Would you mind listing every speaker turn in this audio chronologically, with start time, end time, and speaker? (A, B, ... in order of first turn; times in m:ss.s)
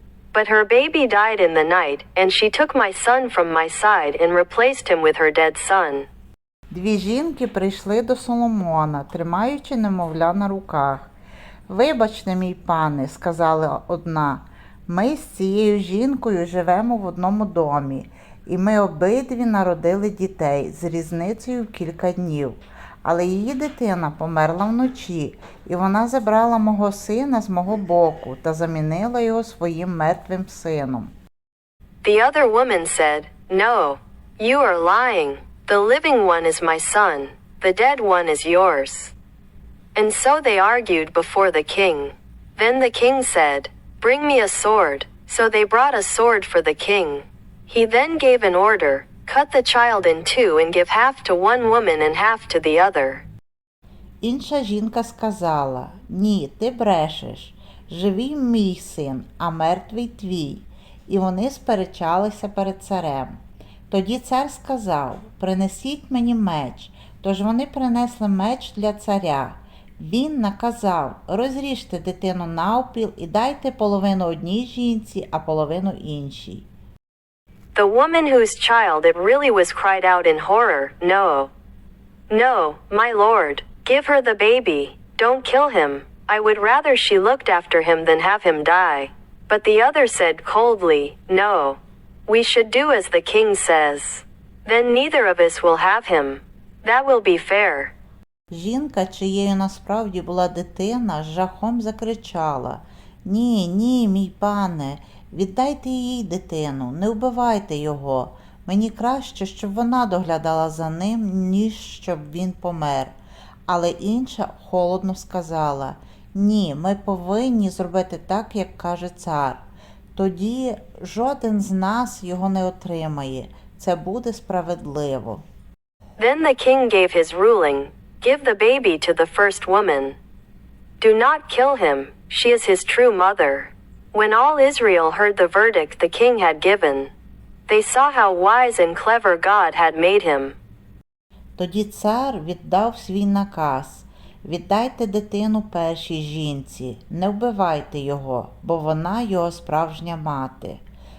0:00.3-0:06.1 A
0:06.7-0:11.1 B
0:11.7-0:31.1 B
0:32.0-0:39.1 A
0:40.0-0:53.2 A
0:54.2-1:16.7 B
1:17.8-1:21.5 A
1:22.3-1:37.9 A
1:38.5-1:53.2 B
1:53.7-1:59.6 B
2:00.2-2:05.4 B
2:06.2-2:10.2 A
2:11.0-2:17.1 A
2:17.7-2:20.6 A
2:21.6-2:30.8 B